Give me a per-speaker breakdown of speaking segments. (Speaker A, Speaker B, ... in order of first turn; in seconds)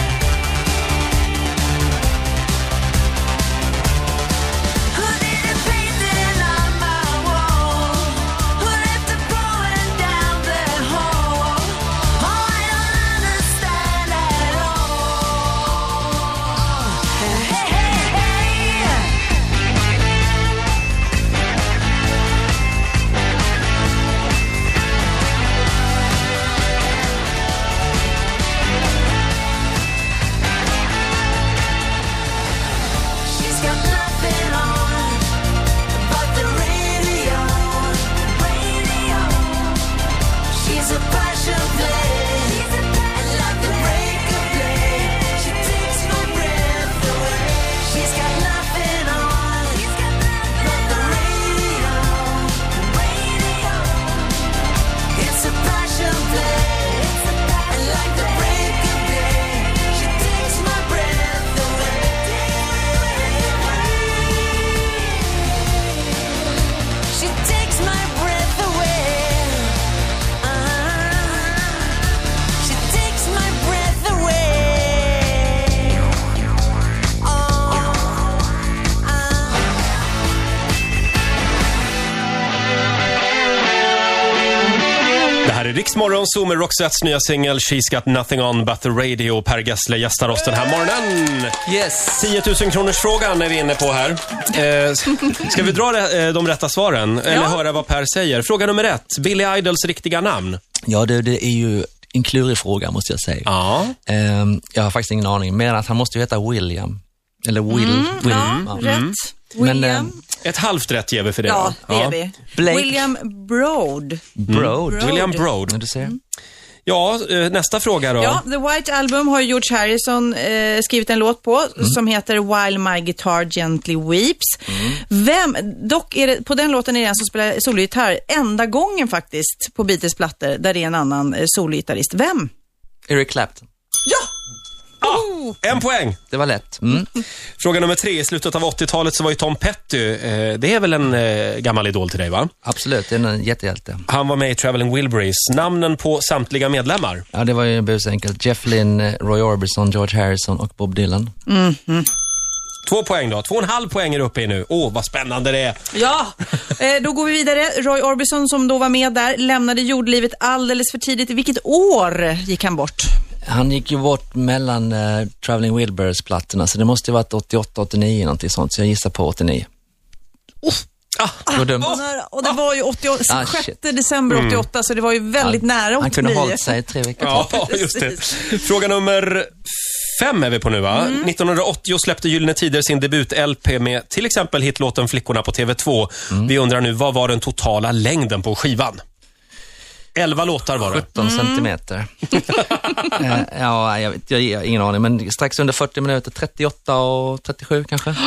Speaker A: 4.9-19.2, 33.2-39.8, 40.5-54.1, 55.1-65.6, 67.0-76.1, 77.2-78.4, 79.0-79.7
Speaker B: 85.4-91.6, 92.2-100.6, 103.5-103.9, 108.2-109.2, 110.4-112.1, 114.5-115.8, 116.8-118.4, 135.0-136.2, 137.6-142.5, 144.1-147.2, 152.8-155.8, 171.2-171.4, 174.3-174.6, 177.2-189.0, 190.2-191.1
Speaker C: 91.7-92.3, 100.9-103.5, 104.0-108.8, 109.6-110.1, 112.5-113.1, 114.4-116.2, 124.7-125.0, 133.1-133.7, 136.3-137.1, 142.6-144.1, 147.3-151.3, 163.4-169.7, 171.5-172.0, 173.3-173.8, 175.4-177.6, 190.8-192.6, 193.1-198.2
Speaker D: 97.3-97.6, 107.7-110.2, 111.4-114.2, 114.8-115.4, 118.2-132.5, 135.0-135.6, 151.5-152.1, 155.9-163.1, 171.5-178.6, 181.0-181.2, 191.2-191.6